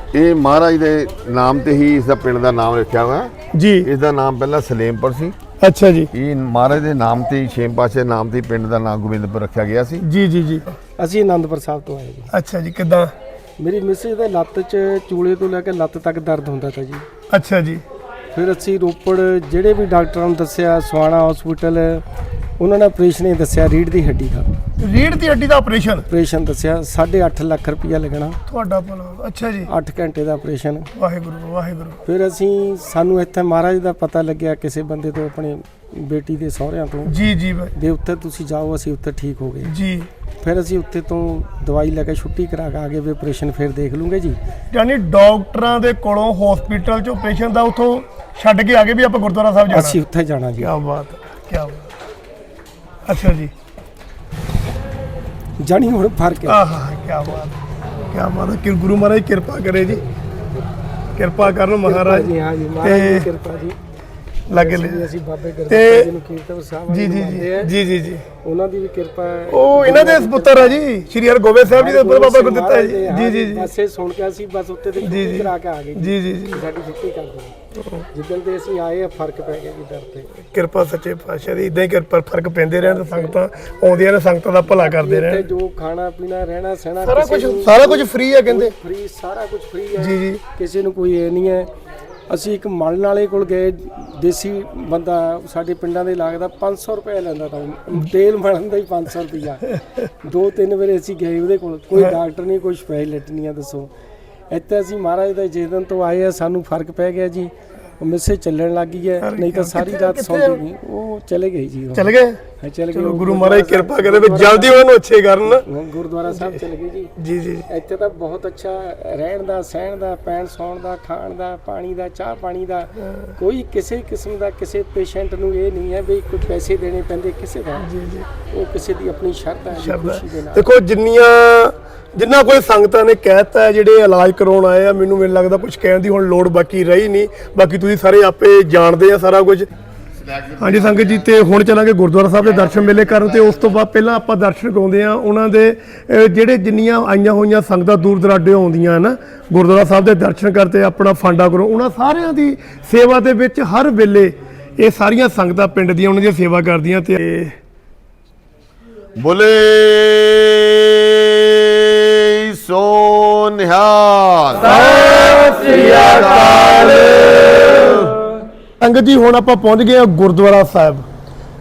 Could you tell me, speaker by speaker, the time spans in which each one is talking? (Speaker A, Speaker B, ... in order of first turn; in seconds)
Speaker A: 0.1-5.3, 6.1-10.0, 140.1-141.4, 142.4-143.8, 159.2-168.2
Speaker B: 3.5-3.9, 5.6-6.1, 10.0-10.7, 12.3-13.1, 17.3-17.8, 24.8-26.1, 28.5-29.7, 30.9-32.0, 37.0-37.7, 39.6-40.1, 44.7-50.0, 50.6-51.9, 53.0-53.5, 56.5-57.5, 58.1-60.0, 61.1-63.3, 64.5-65.1, 65.7-66.1, 66.9-68.2, 69.5-73.7, 75.0-76.6, 77.7-78.0, 80.4-85.5, 87.0-88.7, 90.0-90.4, 109.2-110.6, 111.9-112.4, 112.9-115.6, 116.3-116.6, 117.2-117.7, 123.0-123.3, 127.8-128.3, 129.7-139.7, 140.6-157.6, 164.6-167.2, 168.8-171.1
Speaker C: 11.0-12.3, 13.6-17.1, 18.3-22.0, 22.6-24.5, 26.1-28.4, 29.6-30.9, 32.0-37.1, 37.7-39.7, 40.4-44.4, 49.7-50.7, 55.6-56.6, 61.8-63.8, 64.5-67.7, 68.4-70.8, 71.7-77.5, 78.1-80.3, 82.8-83.4, 84.6-91.7, 92.3-103.9, 104.5-114.8, 115.4-117.1, 117.7-127.9, 128.5-130.7